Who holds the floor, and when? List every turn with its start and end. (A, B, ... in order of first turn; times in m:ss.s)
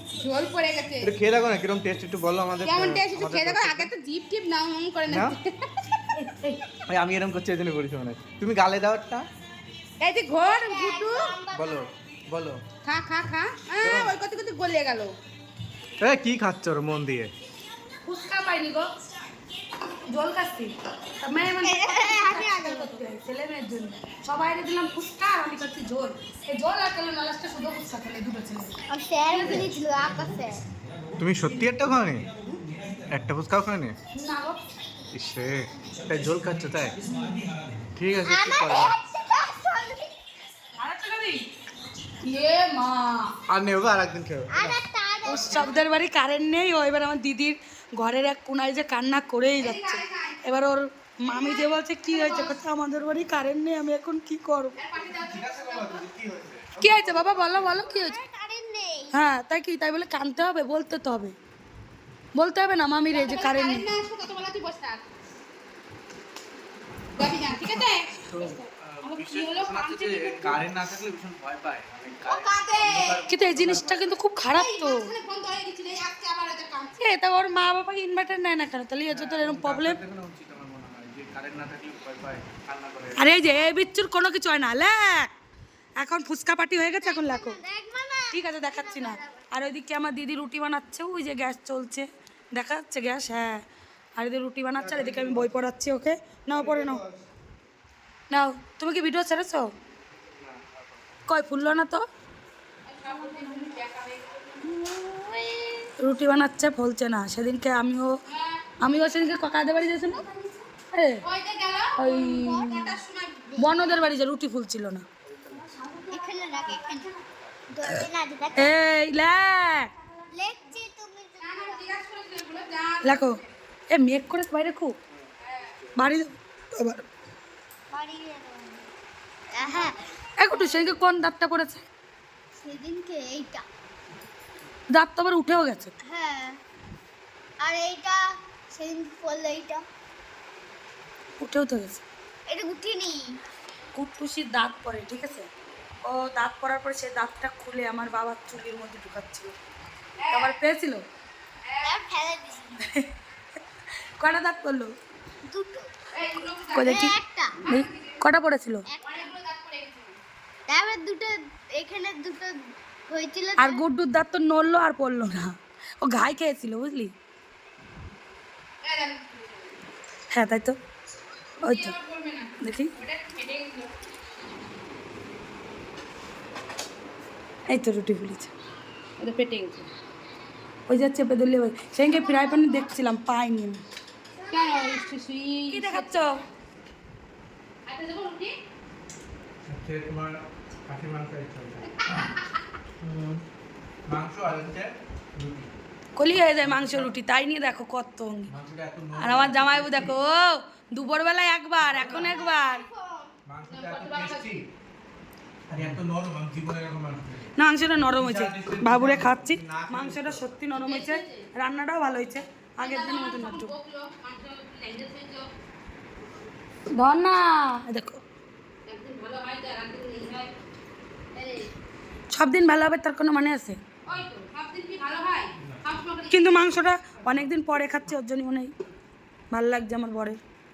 0:00.2-0:01.2 A
0:01.0-0:03.9 B
0:02.6-0:05.8 A
0:05.1-0:05.4 B
0:06.1-0:06.6 C
0:06.9-0:09.2 B
0:10.0-0:11.3 A
0:10.4-0:11.9 D
0:11.5-0:12.6 B
0:12.8-0:15.2 A
0:13.8-0:14.2 B
0:16.0-0:17.3 B
0:18.0-0:18.9 C
0:20.1-0:28.8 C
0:21.6-0:23.0 D
0:28.9-0:30.6 D
0:29.3-0:29.7 C
0:31.2-0:32.3 B
0:33.1-0:34.0 B
0:34.2-0:34.6 C
0:35.1-0:37.0 B
0:37.9-0:38.9 B
0:38.1-0:40.1 D
0:40.8-0:41.4 C
0:42.2-0:43.3 A
0:43.5-0:44.8 B
0:44.5-0:45.8 D
0:45.2-0:54.8 C
0:49.6-0:50.4 A
0:51.2-0:52.6 A
0:54.8-0:56.1 A
0:55.1-0:57.9 B
0:56.8-0:58.2 C
0:57.8-0:59.2 D
0:59.1-1:01.4 C
1:02.4-1:03.9 C
1:03.1-1:05.0 A
1:07.2-1:10.6 A
1:08.3-1:14.2 B
1:12.2-1:13.2 A
1:13.3-1:15.1 C
1:14.5-1:17.0 A
1:17.0-1:20.0 C
1:19.1-1:23.3 B
1:23.2-1:25.3 C
1:26.0-1:27.6 C
1:27.0-1:29.5 D
1:28.3-1:33.6 C
1:34.2-1:37.0 C
1:34.8-1:35.6 B
1:36.5-1:37.2 B
1:38.3-1:39.7 C
1:40.2-1:41.0 B
1:41.3-1:42.0 C
1:42.8-1:44.6 A
1:44.6-1:45.9 D
1:46.0-1:48.2 C
1:48.3-1:48.6 A
1:48.8-1:50.2 C
1:50.2-1:50.6 D
1:50.9-1:51.2 C
1:51.2-1:52.0 A
1:52.0-1:52.9 C
1:52.1-1:53.0 D
1:52.6-1:54.0 A
1:53.6-1:55.1 C
1:55.3-1:55.6 B
1:55.8-1:57.1 D
1:57.7-1:58.8 D
1:58.6-1:59.9 C
2:00.3-2:01.9 D
2:01.4-2:03.4 A
2:03.0-2:03.4 C
2:03.9-2:05.0 C
2:05.4-2:05.8 A
2:06.0-2:07.1 C
2:07.9-2:08.8 D
2:09.5-2:10.0 D
2:10.4-2:11.9 C
2:12.6-2:13.6 D
2:14.9-2:15.9 C
2:16.0-2:16.6 D
2:17.6-2:19.8 D
2:21.4-2:22.0 C
2:22.5-2:23.4 D
2:24.0-2:25.5 C
2:26.0-2:29.6 C
2:30.2-2:30.6 A
2:30.3-2:31.0 C
2:31.7-2:32.0 A
2:31.8-2:32.8 D
2:34.2-2:34.9 C
2:35.5-2:35.9 D
2:36.1-2:37.0 A
2:36.7-2:38.9 C
2:36.8-2:37.6 D
2:37.6-2:38.2 A
2:38.9-2:39.3 D
2:39.0-2:40.2 A
2:40.7-2:43.8 D
2:43.6-2:47.1 C
2:48.8-2:49.8 A
2:50.3-2:50.8 C
2:51.6-2:54.0 A
2:51.6-2:52.0 C
2:52.6-2:52.9 C
2:57.7-2:58.5 C
2:59.2-2:59.9 A
3:00.9-3:03.8 C
3:04.5-3:06.4 A
3:05.7-3:06.4 C
3:07.9-3:08.5 A
3:09.7-3:12.3 B
3:13.0-3:13.4 B
3:14.1-3:15.7 B
3:16.2-3:18.5 C
3:16.6-3:17.2 B
3:18.5-3:20.2 B
3:19.2-3:22.8 C
3:21.8-3:22.2 B
3:22.0-3:22.6 A
3:22.2-3:23.3 D
3:23.5-3:24.7 B
3:23.7-3:24.6 A
3:25.7-3:30.6 B
3:27.6-3:33.7 C
3:30.8-3:31.5 A
3:32.8-3:35.5 A
3:36.9-3:38.2 C
3:38.9-3:40.5 A
3:41.3-3:41.7 A
3:42.3-3:43.8 C
3:44.0-3:46.7 A
3:46.3-3:48.7 C
3:47.3-3:47.8 B
3:49.5-3:50.4 C